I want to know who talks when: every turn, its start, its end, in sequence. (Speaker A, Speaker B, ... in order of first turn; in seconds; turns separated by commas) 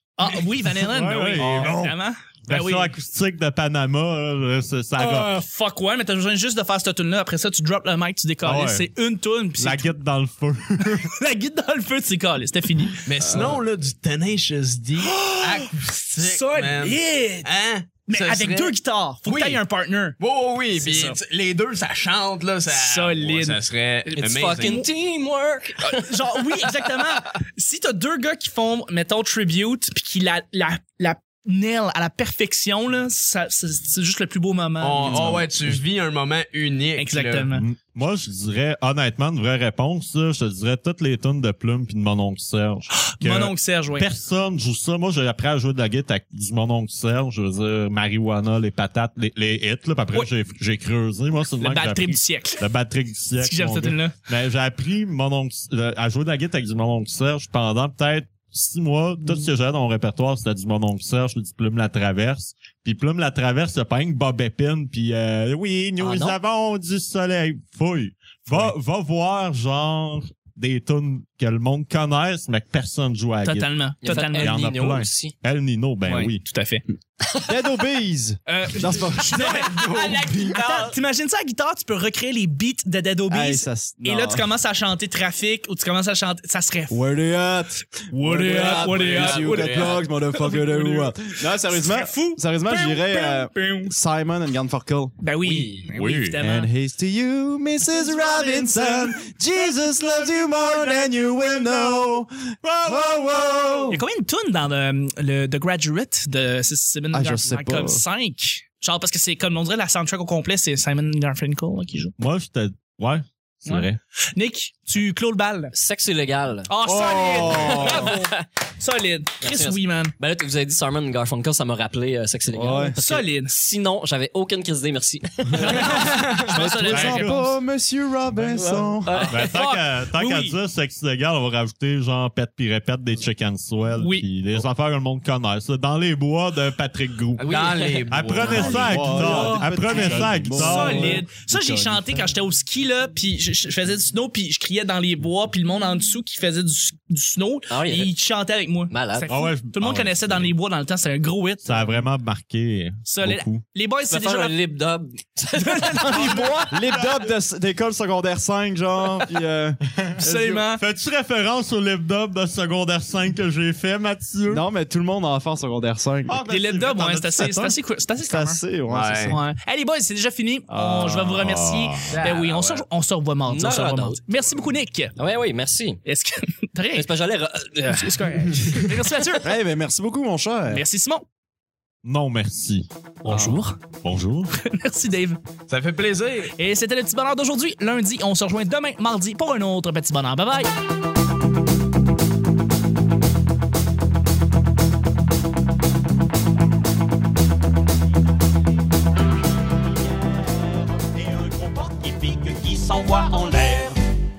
Speaker A: 0.2-2.9, Speaker B: 0.7-1.9, Speaker C: 1.4-1.8, Speaker B: 2.5-5.4, Speaker A: 5.0-9.9, Speaker B: 8.4-8.9, Speaker B: 9.6-11.1, Speaker A: 11.0-13.0, Speaker D: 13.0-18.7, Speaker A: 15.0-17.5, Speaker A: 18.1-20.2, Speaker D: 19.2-19.6, Speaker D: 20.2-24.8, Speaker A: 20.8-21.2, Speaker A: 22.7-23.6, Speaker E: 24.1-26.9, Speaker A: 24.6-24.9, Speaker A: 25.8-35.3, Speaker D: 34.8-37.5, Speaker B: 35.0-35.8, Speaker A: 37.0-37.7, Speaker B: 37.5-76.4, Speaker A: 42.9-44.1, Speaker A: 51.6-52.6, Speaker A: 53.4-54.1, Speaker E: 66.0-66.3, Speaker A: 73.4-74.6, Speaker E: 74.0-75.3, Speaker A: 76.0-76.8, Speaker E: 77.2-77.5, Speaker C: 77.4-80.9, Speaker A: 78.5-87.0, Speaker D: 79.3-80.3, Speaker C: 83.3-84.5, Speaker C: 86.9-95.1, Speaker A: 88.1-93.9, Speaker E: 88.4-90.0, Speaker A: 95.2-96.7, Speaker E: 95.4-95.9, Speaker B: 95.9-96.4, Speaker C: 96.4-104.0, Speaker A: 97.9-99.2, Speaker B: 102.7-103.1, Speaker A: 103.9-112.1, Speaker C: 107.1-108.0, Speaker B: 112.2-114.0, Speaker A: 113.7-115.7, Speaker E: 115.7-116.7, Speaker A: 116.7-120.1, Speaker C: 116.8-118.1, Speaker E: 117.3-118.4, Speaker E: 119.4-126.1, Speaker C: 122.5-123.0, Speaker A: 123.0-123.5, Speaker A: 125.6-127.5, Speaker C: 125.7-129.3, Speaker D: 126.1-126.4, Speaker B: 126.9-127.4, Speaker E: 128.5-129.5, Speaker A: 129.2-130.6, Speaker B: 129.3-142.2, Speaker A: 134.0-134.2, Speaker D: 137.4-139.0, Speaker E: 137.4-138.6, Speaker A: 138.5-151.8, Speaker C: 138.6-141.3, Speaker E: 147.7-148.1, Speaker E: 148.9-149.3, Speaker B: 149.2-150.5, Speaker B: 151.6-153.6, Speaker A: 153.1-154.6, Speaker E: 154.1-156.5, Speaker A: 155.6-157.1, Speaker B: 156.1-156.9, Speaker C: 156.7-160.6, Speaker A: 160.2-160.8, Speaker B: 160.7-164.6, Speaker C: 164.5-166.4, Speaker B: 166.3-167.8, Speaker A: 166.5-168.6, Speaker C: 168.2-169.4, Speaker D: 168.9-169.4, Speaker A: 169.2-175.1, Speaker B: 170.7-172.2, Speaker D: 172.1-172.8, Speaker E: 173.5-174.2, Speaker E: 175.2-176.0, Speaker A: 176.0-177.1, Speaker E: 176.9-178.7, Speaker A: 177.8-179.5, Speaker C: 179.4-180.8, Speaker A: 180.7-181.2, Speaker B: 182.0-184.5, Speaker A: 183.2-183.8, Speaker A: 184.5-185.4, Speaker D: 185.7-186.5, Speaker A: 186.6-190.7, Speaker F: 200.1-204.0